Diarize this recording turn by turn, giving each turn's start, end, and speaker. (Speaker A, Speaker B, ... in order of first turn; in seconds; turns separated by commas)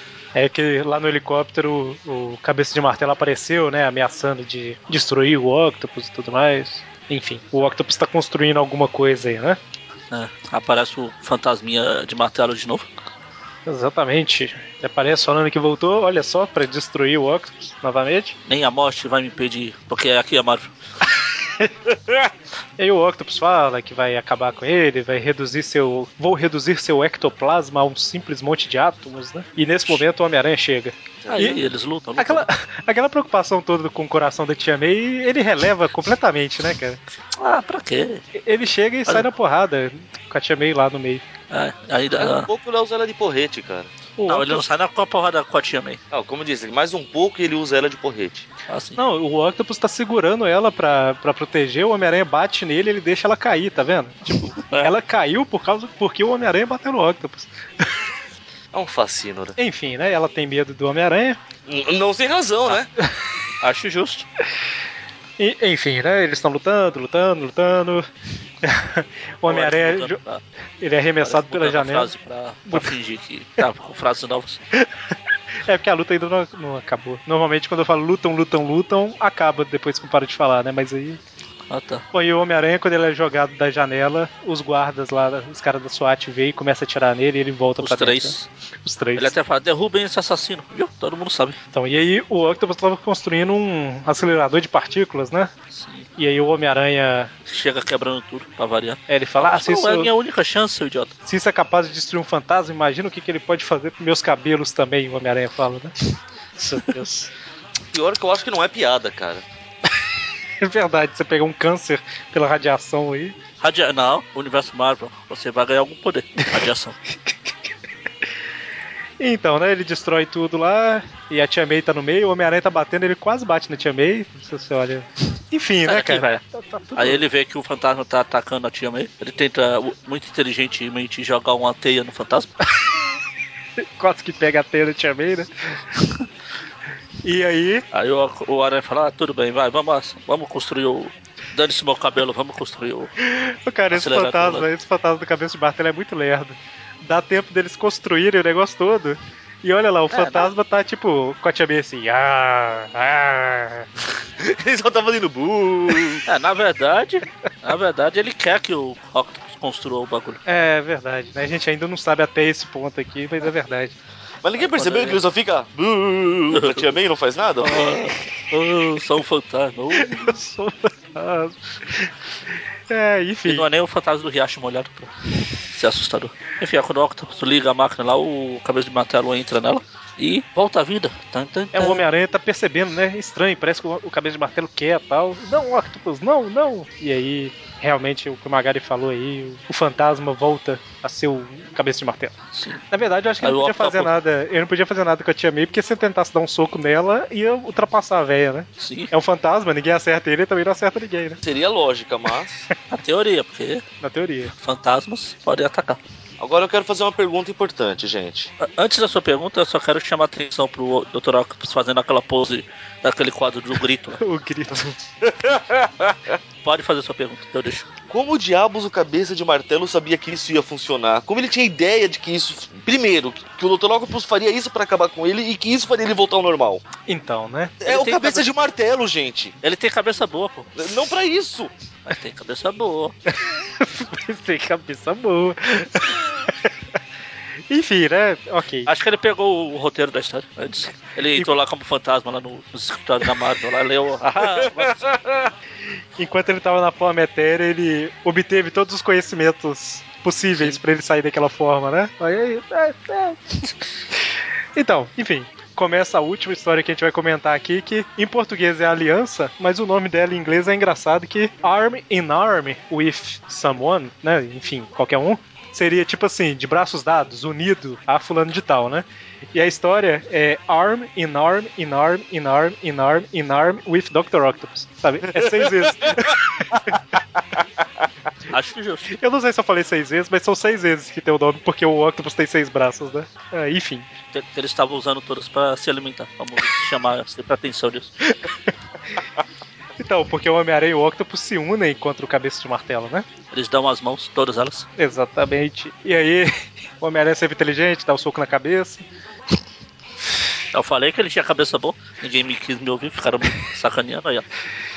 Speaker A: 0.3-9.6, Speaker B: 10.1-12.9, Speaker A: 13.7-18.4, Speaker B: 18.5-20.7, Speaker A: 22.8-31.6, Speaker C: 31.2-31.6, Speaker B: 31.3-32.5, Speaker A: 32.2-37.0, Speaker B: 37.4-38.2, Speaker A: 38.3-41.2, Speaker B: 41.5-42.5, Speaker C: 42.2-43.9, Speaker A: 44.2-44.6, Speaker B: 44.3-46.0, Speaker C: 46.1-48.5, Speaker B: 48.7-49.0, Speaker A: 49.0-57.9, Speaker B: 54.5-54.9, Speaker C: 58.7-59.5, Speaker A: 59.6-61.4, Speaker C: 61.7-62.9, Speaker B: 63.6-64.2, Speaker A: 65.4-68.0, Speaker A: 68.6-70.2, Speaker B: 69.5-70.4, Speaker A: 70.8-72.1, Speaker B: 71.2-74.6, Speaker A: 72.7-72.9, Speaker A: 75.6-81.2, Speaker B: 81.7-82.0, Speaker A: 82.1-89.3, Speaker B: 87.8-88.5, Speaker B: 89.2-91.6, Speaker A: 91.7-95.5, Speaker B: 95.7-96.1, Speaker A: 96.2-97.3, Speaker B: 97.5-101.1, Speaker A: 99.1-100.1, Speaker A: 101.2-105.9, Speaker A: 106.6-107.3, Speaker C: 107.9-109.4, Speaker A: 110.6-113.3, Speaker B: 113.6-117.0, Speaker A: 119.2-127.2, Speaker B: 125.8-126.4, Speaker B: 127.0-132.5, Speaker A: 133.8-135.8, Speaker A: 137.2-137.8, Speaker B: 137.9-143.1, Speaker A: 143.2-153.9, Speaker B: 143.9-144.7, Speaker B: 150.1-150.5, Speaker C: 154.4-156.2, Speaker B: 156.2-160.4, Speaker A: 160.4-163.9, Speaker C: 164.4-167.8, Speaker B: 164.6-165.2, Speaker B: 166.5-166.9, Speaker B: 167.6-170.3, Speaker A: 169.9-172.1, Speaker A: 172.9-173.7, Speaker B: 173.5-175.1, Speaker B: 175.7-182.0, Speaker A: 181.7-192.3, Speaker B: 192.5-192.8, Speaker A: 192.9-201.4, Speaker B: 193.4-194.1, Speaker B: 198.8-199.1, Speaker C: 201.4-202.7, Speaker B: 202.9-203.8, Speaker A: 204.0-204.5, Speaker B: 204.5-206.0, Speaker C: 206.4-208.5, Speaker B: 208.6-214.2, Speaker A: 214.2-215.0, Speaker C: 215.2-216.3, Speaker B: 216.6-217.9, Speaker C: 218.1-226.8, Speaker A: 227.1-227.8, Speaker C: 227.8-229.5, Speaker B: 227.8-228.4, Speaker B: 229.6-230.7, Speaker C: 230.8-231.7, Speaker B: 232.1-233.1, Speaker A: 233.3-236.6, Speaker A: 237.7-238.9, Speaker B: 238.9-245.0, Speaker C: 244.6-245.5, Speaker A: 246.2-253.6, Speaker A: 254.8-277.0, Speaker B: 278.5-279.1, Speaker A: 279.1-284.1, Speaker B: 284.3-288.1, Speaker A: 288.3-288.5, Speaker A: 290.0-293.2, Speaker B: 293.5-294.9, Speaker A: 295.0-299.0, Speaker B: 300.7-304.4